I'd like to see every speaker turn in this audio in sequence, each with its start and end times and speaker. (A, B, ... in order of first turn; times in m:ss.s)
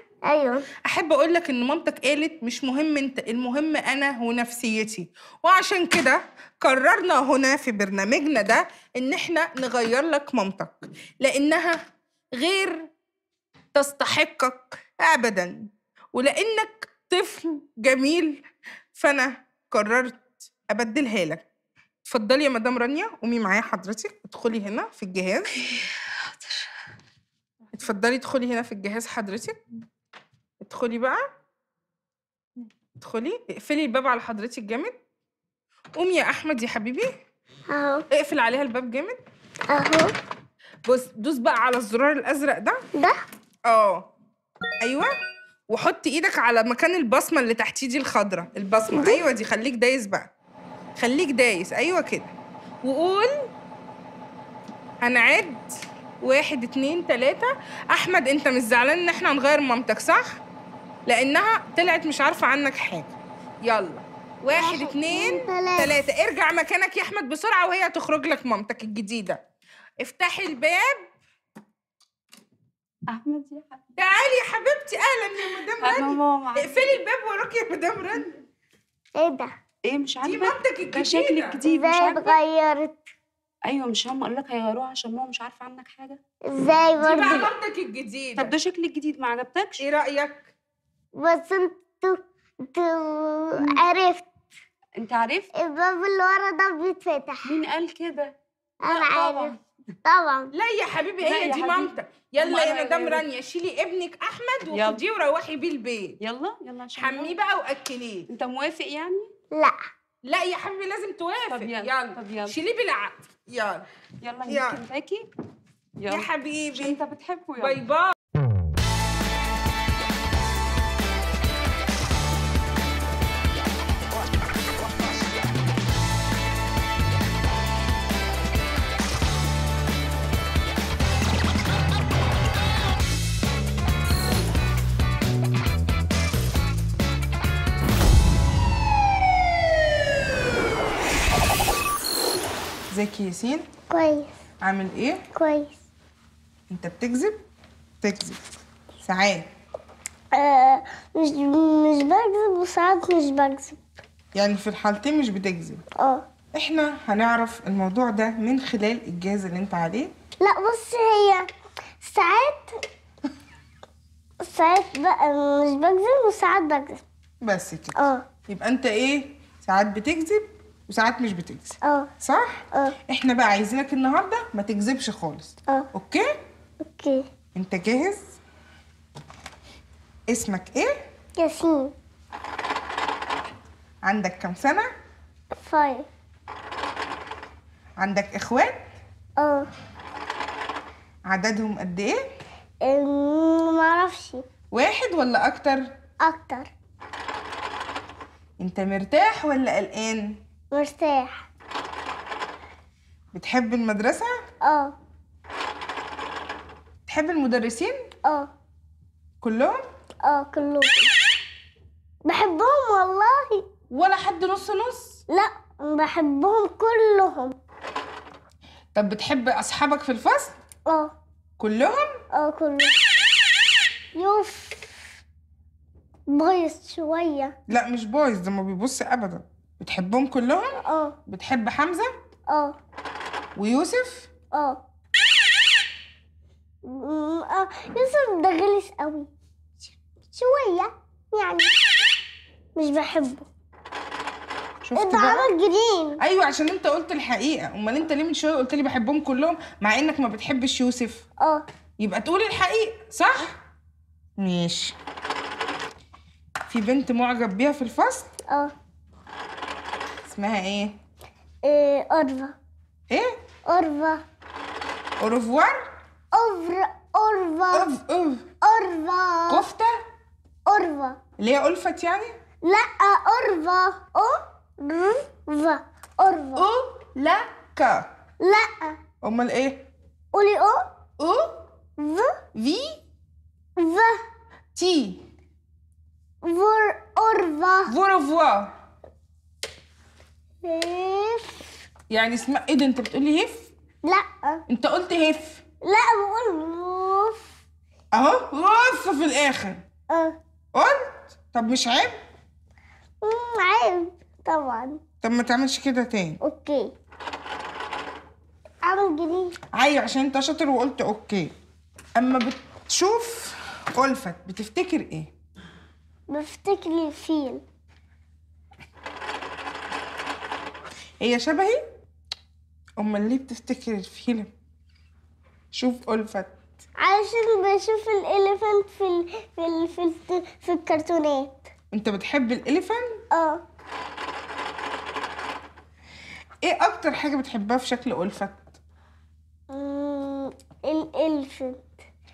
0:00.3-0:00.7 A
0:00.8-0:11.8 B
0:12.4-0:12.9 B
0:13.8-0:18.4 B
0:19.0-0:21.5 B
0:22.1-0:25.6 B
0:27.7-0:29.6 B
0:30.6-0:31.2 B
0:33.0-0:35.0 B
0:36.0-0:37.1 B
0:37.7-0:38.0 A
0:38.1-0:39.2 B
0:39.7-0:40.1 A
0:40.9-0:42.8 B
0:43.0-0:43.2 A
0:43.7-0:44.1 B
0:44.8-0:45.1 B
0:45.7-0:50.3 B
0:48.9-0:49.2 A
0:51.0-0:53.3 B
0:55.0-0:55.6 B
0:56.2-1:00.4 B
1:01.1-1:09.4 B
1:04.5-1:06.0 A
1:10.0-1:11.1 B
1:13.1-1:13.8 C
1:14.0-1:18.3 B
1:15.8-1:16.9 C
1:19.2-1:19.5 A
1:19.8-1:22.4 C
1:20.2-1:21.6 B
1:21.7-1:23.0 A
1:23.7-1:26.2 C
1:26.5-1:27.5 A
1:27.0-1:28.5 B
1:28.4-1:29.8 C
1:29.8-1:30.5 B
1:31.2-1:34.3 A
1:35.0-1:35.5 C
1:35.5-1:37.6 A
1:37.4-1:39.6 C
1:38.8-1:39.5 A
1:40.0-1:40.5 A
1:40.5-1:46.2 B
1:41.2-1:43.2 C
1:44.7-1:45.0 C
1:46.2-1:47.3 C
1:47.0-1:48.3 B
1:48.3-1:49.3 C
1:49.5-1:49.8 A
1:50.2-1:53.9 B
1:51.5-1:52.6 C
1:54.2-1:55.3 C
1:54.5-1:54.8 B
1:56.0-1:57.8 C
1:56.1-1:57.0 B
1:57.6-1:58.1 B
2:22.9-2:23.6 B
2:23.9-2:24.3 A
2:24.6-2:25.2 B
2:25.3-2:25.8 A
2:26.7-2:27.4 B
2:28.0-2:28.4 B
2:29.0-2:29.5 B
2:30.3-2:33.8 A
2:34.4-2:35.8 B
2:36.0-2:36.2 A
2:36.5-2:40.1 B
2:40.4-2:41.5 A
2:42.0-2:42.8 A
2:44.4-2:47.0 A
2:47.4-2:48.0 B
2:48.0-2:48.2 A
2:48.5-2:56.3 B
2:51.8-2:52.1 A
2:56.8-2:57.2 A
2:57.6-2:58.2 B
3:00.3-3:00.9 B
3:01.4-3:01.9 A
3:04.0-3:04.9 B
3:05.6-3:06.1 A
3:08.0-3:08.8 B
3:09.4-3:09.7 A
3:11.3-3:12.2 B
3:12.8-3:14.4 A
3:14.7-3:15.9 B
3:16.2-3:16.7 A
3:18.6-3:20.4 B
3:20.7-3:21.4 A
3:23.3-3:24.3 B
3:24.6-3:25.0 A
3:27.1-3:28.0 B
3:28.2-3:28.5 A
3:29.4-3:29.8 B
3:30.2-3:31.1 A
3:32.3-3:33.6 A
3:33.9-3:35.2 B
3:35.3-3:37.6 A
3:39.0-3:40.5 B
3:40.9-3:41.1 A
3:41.6-3:42.1 B
3:42.3-3:43.0 A
3:44.2-3:45.0 A
3:46.3-3:47.6 A
3:47.7-3:52.1 B
3:50.8-3:51.2 A
3:52.5-3:52.8 A
3:53.6-3:54.3 B
3:54.5-3:54.8 A
3:56.9-3:59.3 A
4:00.3-4:01.7 A
4:02.8-4:03.5 A
4:04.8-4:05.5 B
4:05.0-4:06.2 A
4:06.2-4:11.2 B
4:12.0-4:13.5 B
4:14.4-4:15.0 B
4:16.7-4:18.3 B
4:20.3-4:20.9 B
4:21.6-4:22.6 A
4:23.7-4:24.2 A
4:25.2-4:25.8 B
4:26.3-4:27.9 A
4:27.7-4:28.4 B
4:28.6-4:29.6 A
4:29.5-4:29.9 B
4:30.7-4:31.2 A
4:31.4-4:32.4 B
4:32.6-4:36.7 A
4:36.6-4:38.1 B
4:38.4-4:39.0 A
4:39.2-4:39.8 B
4:40.3-4:40.8 A
4:41.2-4:41.6 B
4:42.0-4:42.3 A
4:42.6-4:43.0 B
4:43.8-4:44.2 A
4:44.8-4:45.2 B
4:46.4-4:47.9 A
4:47.9-4:48.7 B
4:50.6-4:51.6 A
4:52.1-4:53.7 B
4:54.0-4:54.6 A
4:54.7-4:55.6 B
4:55.8-4:57.4 A
4:58.1-4:59.8 B
5:00.1-5:00.4 A
5:00.8-5:02.2 B
5:03.2-5:05.0 A
5:05.2-5:06.4 B
5:06.4-5:06.9 A
5:08.8-5:09.5 A
5:09.8-5:11.5 B
5:12.2-5:15.3 B
5:16.3-5:17.6 A
5:21.2-5:21.8 B
5:23.0-5:24.5 B
5:25.7-5:26.5 B
5:27.0-5:31.7 A
5:31.9-5:33.2 B
5:33.3-5:33.6 A
5:36.6-5:38.8 B
5:39.7-5:41.8 A